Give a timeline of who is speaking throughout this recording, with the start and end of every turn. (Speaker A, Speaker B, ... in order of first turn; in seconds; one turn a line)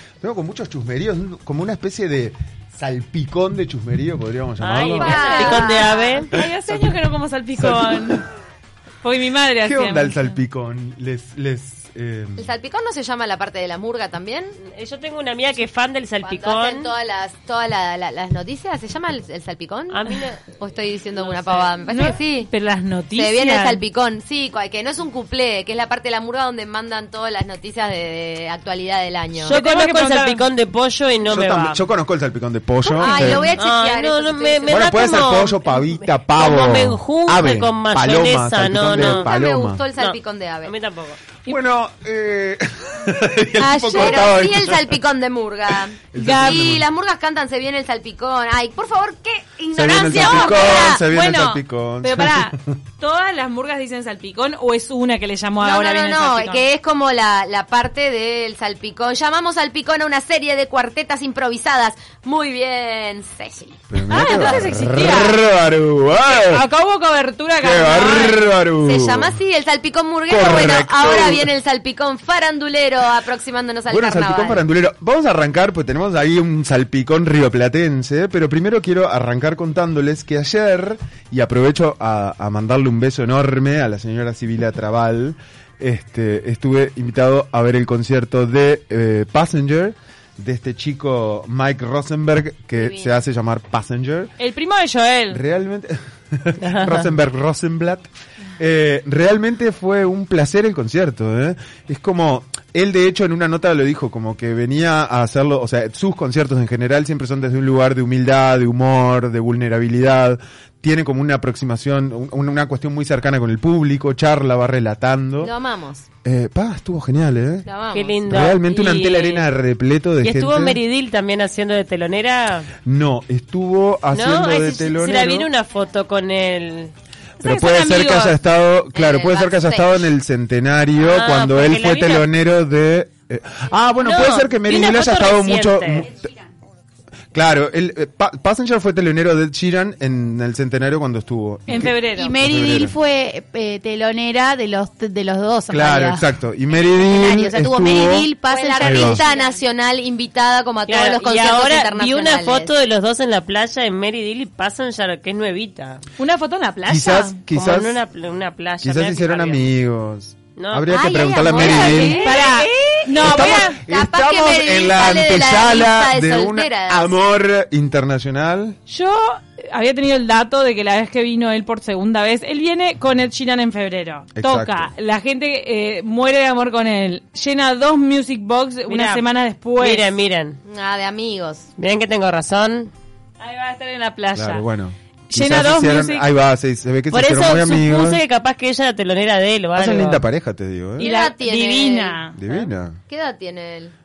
Speaker A: 0.2-5.2
Speaker B: 4.6-6.3
Speaker C: 5.0-8.2
Speaker D: 5.0-6.2
Speaker A: 7.6-8.2
Speaker C: 9.0-10.3
Speaker A: 9.6-12.5
Speaker D: 12.4-14.5
Speaker B: 14.6-16.9
Speaker D: 16.2-22.5
Speaker B: 19.9-20.4
Speaker B: 21.1-21.8
Speaker C: 21.9-23.8
Speaker D: 23.1-29.6
Speaker B: 29.4-31.8
Speaker C: 29.5-30.4
Speaker A: 31.3-33.5
Speaker D: 32.8-34.9
Speaker B: 33.0-39.3
Speaker A: 34.7-39.8
Speaker D: 38.9-40.7
Speaker B: 40.0-41.2
Speaker A: 41.5-45.0
Speaker D: 43.6-51.0
Speaker A: 46.1-46.8
Speaker C: 46.1-46.7
Speaker A: 49.7-52.7
Speaker C: 50.1-56.6
Speaker D: 55.6-64.5
Speaker A: 63.9-66.6
Speaker C: 64.1-65.4
Speaker C: 66.3-68.5
Speaker A: 67.6-69.3
Speaker D: 68.7-74.6
Speaker A: 70.3-71.5
Speaker A: 73.9-94.3
Speaker D: 92.8-93.1
Speaker C: 94.4-95.4
Speaker A: 95.3-98.1
Speaker B: 96.6-97.1
Speaker A: 98.6-115.5
Speaker D: 115.4-116.0
Speaker A: 116.2-117.7
Speaker D: 117.7-118.2
Speaker B: 117.9-119.5
Speaker A: 118.3-120.8
Speaker B: 120.2-122.7
Speaker A: 122.8-125.5
Speaker B: 124.1-126.9
Speaker A: 127.4-136.3
Speaker C: 127.4-128.3
Speaker D: 128.9-130.1
Speaker B: 131.0-132.3
Speaker B: 134.0-136.1
Speaker A: 137.3-142.9
Speaker C: 141.7-142.4
Speaker E: 142.2-146.3
Speaker A: 145.7-149.2
Speaker E: 146.9-149.6
Speaker D: 147.8-152.7
Speaker B: 150.9-156.0
Speaker C: 156.2-157.4
Speaker A: 156.8-157.9
Speaker B: 157.5-159.7
Speaker A: 158.8-162.2
Speaker B: 160.6-160.9
Speaker D: 160.9-162.6
Speaker B: 161.4-163.4
Speaker C: 161.7-163.8
Speaker D: 163.2-167.1
Speaker A: 163.2-168.8
Speaker C: 168.9-180.0
Speaker A: 174.3-174.9
Speaker B: 178.9-179.2
Speaker B: 179.8-180.6
Speaker D: 180.7-181.7
Speaker B: 181.8-182.9
Speaker C: 183.4-184.6
Speaker A: 184.3-188.2
Speaker C: 185.3-186.2
Speaker B: 187.1-190.2
Speaker A: 189.7-191.1
Speaker C: 191.0-192.4
Speaker D: 191.0-193.9
Speaker A: 192.3-193.0